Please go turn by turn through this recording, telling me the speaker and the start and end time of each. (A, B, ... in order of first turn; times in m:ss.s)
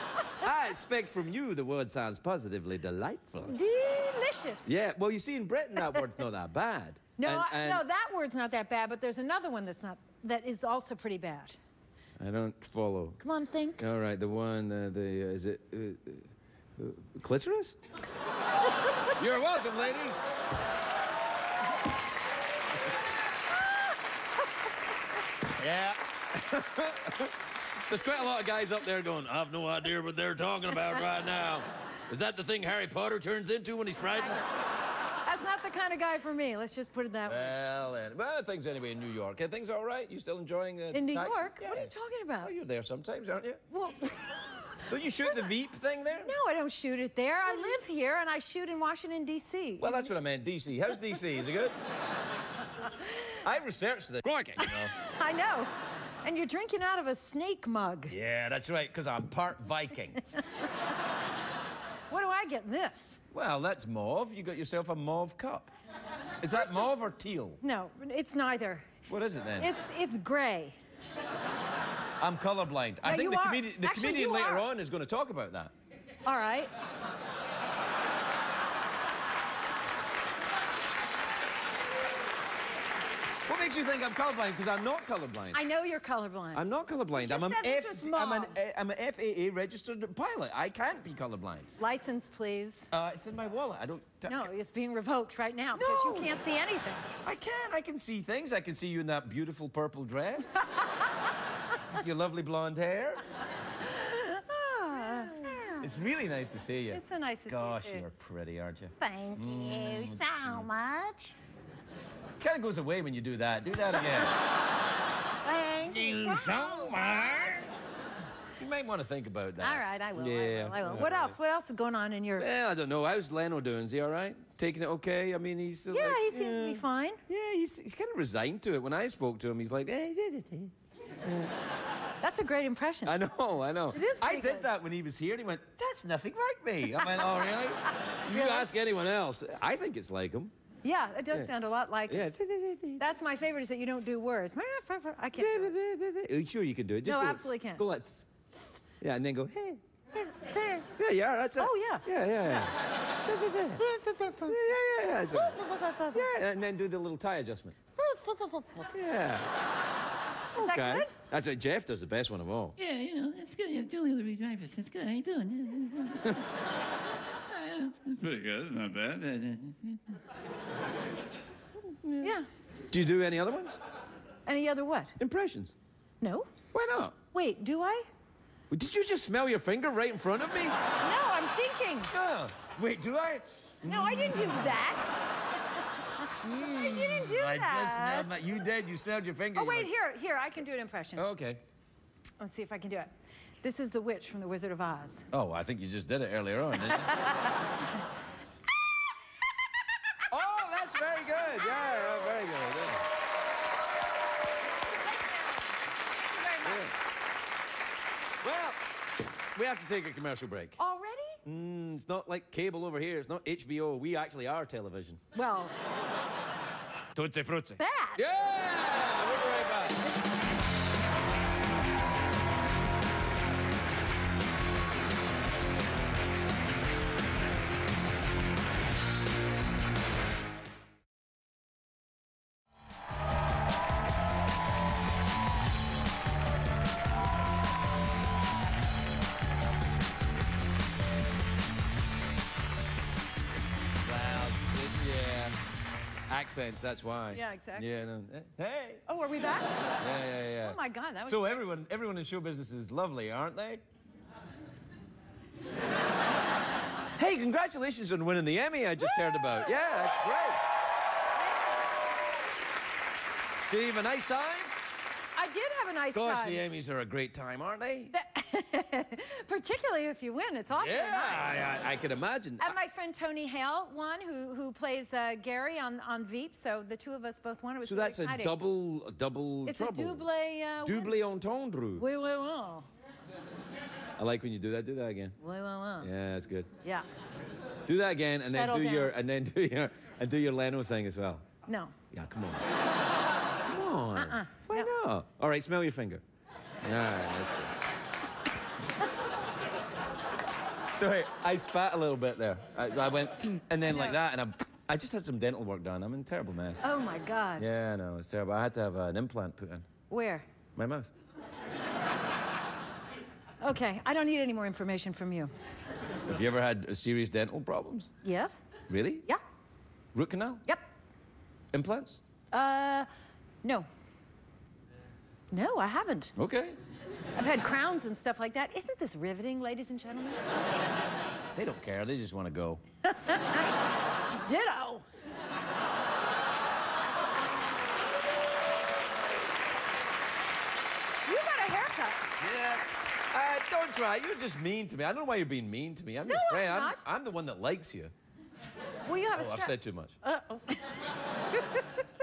0:00.4-0:03.6 A
0:03.4-0:04.8 B
0:04.6-0:07.8 A
0:05.8-0:06.1 B
0:07.2-0:11.6 B
0:12.2-0:13.2 A
0:13.2-0:13.8 B
0:13.8-0:17.8 A
0:19.1-0:20.2 A
0:25.4-0:34.4 A
0:35.2-0:37.5 B
0:37.3-0:43.6 A
0:40.9-0:42.5 B
0:43.7-0:44.8 B
0:44.9-0:46.3 A
0:46.2-0:50.1 B
0:49.8-0:51.8 A
0:52.8-0:53.4 B
0:53.4-0:54.9 A
0:54.6-0:55.7 B
0:56.2-0:58.2 B
0:58.1-1:00.2 A
1:02.1-1:03.2 B
1:03.3-1:05.7 A
1:06.4-1:07.6 A
1:06.5-1:06.9 B
1:07.6-1:08.9 B
1:09.1-1:09.7 A
1:09.6-1:10.8 B
1:12.2-1:15.7 A
1:13.0-1:14.7 B
1:16.3-1:16.7 B
1:23.4-1:25.6 A
1:25.5-1:28.6 B
1:26.5-1:31.7 A
1:31.8-1:32.9 B
1:32.9-1:34.5 A
1:34.3-1:37.1 B
1:35.7-1:36.4 A
1:37.2-1:40.6 A
1:40.7-1:41.0 B
1:41.9-1:43.2 A
1:43.9-1:45.9 B
1:45.0-1:50.7 A
1:46.9-1:48.1 B
1:49.0-1:51.3 B
1:52.4-1:54.4 A
1:55.4-1:57.7 B
1:55.8-1:57.7 A
1:58.6-2:01.4 A
1:59.6-2:02.5 B
2:02.4-2:11.6 A
2:05.9-2:07.2 B
2:12.2-2:13.2 B
2:13.0-2:20.5 A
2:13.9-2:14.7 B
2:17.0-2:18.7 B
2:20.8-2:22.3 B
2:22.1-2:23.0 A
2:23.0-2:25.8 B
2:25.4-2:28.2 A
2:27.0-2:27.8 B
2:29.0-2:29.8 A
2:30.2-2:30.9 B
2:31.0-2:33.8 A
2:31.6-2:32.1 B
2:33.8-2:34.6 B
2:34.4-2:37.8 A
2:35.3-2:36.3 B
2:38.0-2:38.9 B
2:38.9-2:39.5 A
2:40.6-2:41.1 B
2:40.6-2:42.8 A
2:42.8-2:46.3 C
2:47.5-2:50.0 C
2:51.8-2:52.4 A
2:52.2-2:52.5 B
2:52.9-2:53.8 A
2:54.5-2:55.2 B
2:55.2-2:55.7 A
2:56.2-2:56.5 B
2:56.7-2:57.2 A
2:57.3-2:58.1 B
2:58.7-3:00.8 A
3:01.0-3:02.1 B
3:02.1-3:04.8 A
3:03.8-3:05.1 B
3:06.2-3:08.3 B
3:06.4-3:09.9 A
3:09.5-3:11.3 B
3:11.2-3:11.6 A
3:12.4-3:13.1 B
3:13.6-3:15.3 B
3:15.3-3:17.3 A
3:16.9-3:17.6 B
3:20.3-3:23.1 A
3:26.2-3:26.9 B
3:26.6-3:26.9 A
3:28.4-3:28.8 A
3:29.5-3:30.8 A
3:30.8-3:31.4 B
3:31.4-3:35.2 A
3:35.3-3:35.7 B
3:37.1-3:40.1 A
3:37.8-3:38.2 B
4:04.0-4:05.6 A
4:06.3-4:09.0 A
4:07.3-4:07.9 B
4:09.1-4:09.9 B
4:10.0-4:13.8 A
4:10.6-4:11.6 B
4:17.2-4:20.6 A
4:19.0-4:20.0 B
4:23.7-4:24.7 A
4:25.4-4:26.6 B
4:26.1-4:28.1 A
4:28.1-4:31.6 B
4:30.7-4:32.8 A
4:32.6-4:38.6 B
4:37.8-4:40.2 A
4:39.7-4:41.2 B
4:40.8-4:42.1 A
4:42.0-4:42.9 B
4:44.2-4:45.4 A
4:45.4-4:46.1 B
4:46.0-4:46.7 A
4:47.9-4:51.4 A
4:48.5-4:49.1 B
4:51.7-4:52.0 B
4:52.1-4:52.7 A
4:53.6-4:56.2 A
4:54.2-4:54.9 B
4:56.8-4:57.8 A
5:01.0-5:06.9 A
5:06.8-5:07.7 B
5:07.6-5:09.9 A
5:10.1-5:10.5 B
5:10.8-5:11.1 A
5:13.6-5:15.5 B
5:16.2-5:18.1 A
5:18.2-5:18.6 B
5:18.9-5:19.2 A
5:20.1-5:20.6 A
5:21.7-5:22.2 A
5:22.5-5:23.1 B
5:25.5-5:26.3 B
5:26.4-5:26.8 A
5:27.4-5:30.4 B
5:31.6-5:32.8 A
5:33.1-5:33.7 B
5:34.3-5:35.1 B
5:41.3-5:42.3 B
5:42.4-5:48.1 A
5:46.2-5:47.0 B
5:49.1-5:51.0 B
5:49.3-5:50.1 A
5:51.5-5:52.0 B